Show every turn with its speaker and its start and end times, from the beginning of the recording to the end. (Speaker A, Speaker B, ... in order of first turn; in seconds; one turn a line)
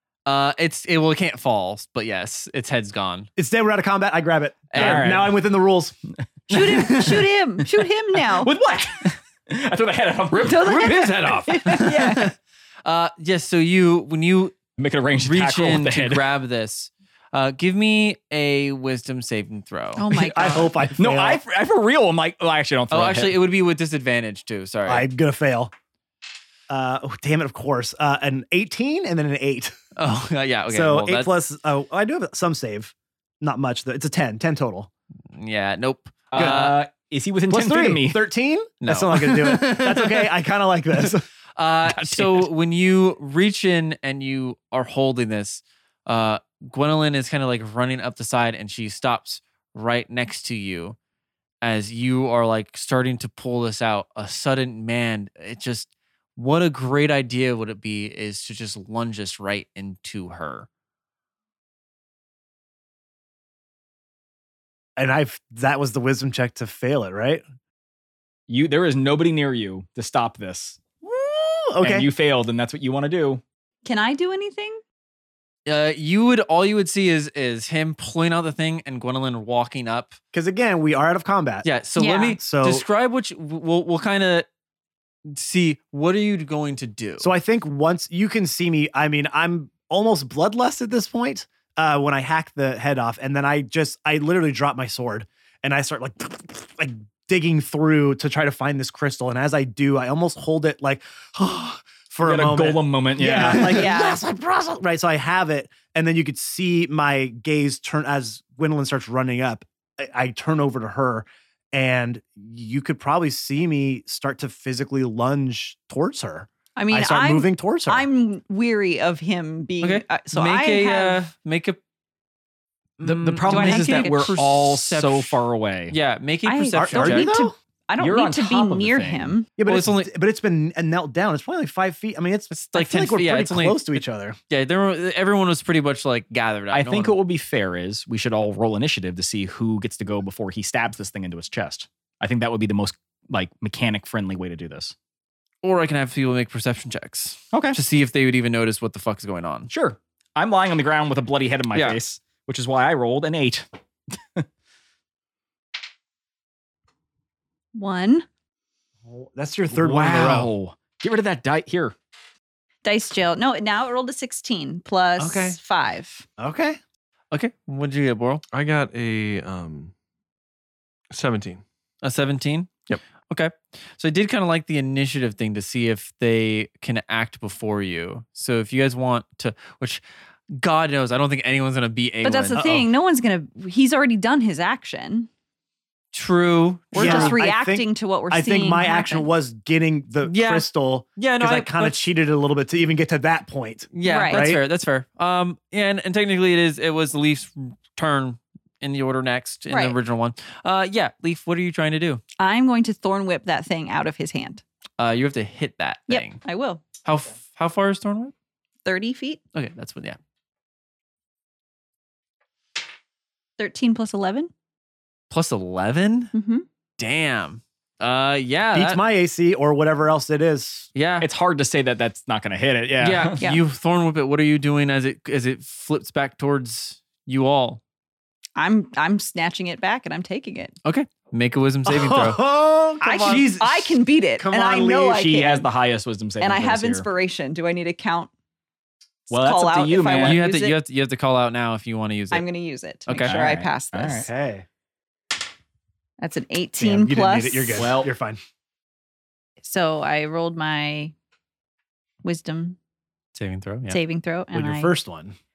Speaker A: 0.3-3.3
Speaker B: 3.4-6.0
Speaker A: 4.7-5.2
Speaker C: 4.8-5.4
Speaker D: 6.5-8.5
Speaker A: 6.5-7.3
Speaker C: 6.6-7.0
Speaker C: 8.3-11.0
Speaker E: 10.3-11.8
Speaker D: 10.4-12.3
Speaker A: 11.6-14.6
Speaker C: 14.8-16.2
Speaker A: 15.2-20.1
Speaker D: 20.0-20.7
Speaker B: 20.1-21.4
Speaker C: 21.0-23.4
Speaker A: 22.9-25.1
Speaker B: 24.9-25.7
Speaker B: 26.7-29.8
Speaker A: 30.0-31.3
Speaker B: 30.7-34.9
Speaker A: 35.3-36.9
Speaker C: 36.3-38.2
Speaker B: 36.4-36.6
Speaker B: 37.5-41.2
Speaker A: 38.8-40.3
Speaker A: 41.6-51.0
Speaker C: 41.9-42.5
Speaker A: 51.6-60.7
Speaker B: 65.0-67.4
Speaker C: 68.5-70.8
Speaker B: 71.0-72.1
Speaker C: 71.8-73.4
Speaker D: 73.8-74.8
Speaker A: 75.7-80.2
Speaker B: 80.3-81.7
Speaker A: 81.6-84.5
Speaker D: 82.0-82.4
Speaker B: 82.4-82.8
Speaker A: 85.3-87.3
Speaker B: 87.2-118.0
Speaker C: 102.2-103.8
Speaker D: 103.5-104.2
Speaker D: 116.8-121.2
Speaker A: 119.8-121.8
Speaker A: 123.0-127.3
Speaker C: 123.0-126.0
Speaker D: 123.5-124.2
Speaker D: 126.5-129.5
Speaker B: 126.8-127.5
Speaker C: 128.0-129.3
Speaker B: 129.6-134.4
Speaker A: 129.6-130.1
Speaker A: 132.5-133.8
Speaker A: 134.5-137.2
Speaker C: 136.7-144.9
Speaker A: 145.6-149.7
Speaker C: 147.5-147.8
Speaker C: 149.7-154.5
Speaker A: 151.7-152.0
Speaker D: 157.7-158.3
Speaker B: 159.1-160.5
Speaker C: 159.7-161.9
Speaker D: 162.8-166.3
Speaker B: 165.2-165.6
Speaker B: 166.4-166.8
Speaker A: 167.3-168.4
Speaker E: 168.5-169.9
Speaker E: 171.1-171.6
Speaker A: 172.0-180.0
Speaker A: 180.6-182.7
Speaker D: 182.2-185.3
Speaker B: 182.6-182.9
Speaker A: 186.1-187.4
Speaker D: 186.9-189.3
Speaker B: 186.9-194.6
Speaker A: 190.2-192.0
Speaker A: 193.9-202.2
Speaker D: 194.0-194.5
Speaker D: 199.7-200.0
Speaker D: 202.4-204.6
Speaker A: 205.0-206.4
Speaker D: 206.1-206.8
Speaker A: 207.1-208.3
Speaker D: 208.8-209.4
Speaker A: 209.6-210.2
Speaker D: 213.6-214.5
Speaker A: 215.3-216.3
Speaker D: 216.3-216.7
Speaker A: 217.0-219.0
Speaker B: 218.7-220.9
Speaker A: 220.9-221.3
Speaker C: 221.2-223.4
Speaker A: 223.0-227.8
Speaker D: 228.6-230.8
Speaker A: 230.8-232.4
Speaker B: 231.9-233.5
Speaker A: 233.0-234.8
Speaker D: 233.0-235.7
Speaker B: 234.5-235.2
Speaker C: 234.7-237.1
Speaker D: 236.4-238.3
Speaker D: 239.3-240.8
Speaker C: 239.3-240.4
Speaker A: 240.2-242.4
Speaker D: 242.3-244.3
Speaker A: 243.1-243.4
Speaker C: 243.2-244.3
Speaker B: 244.1-244.7
Speaker D: 246.2-247.9
Speaker B: 246.8-248.4
Speaker C: 247.8-248.1
Speaker D: 249.6-251.1
Speaker D: 252.2-252.8
Speaker A: 253.3-254.0
Speaker D: 253.9-254.9
Speaker B: 254.5-255.3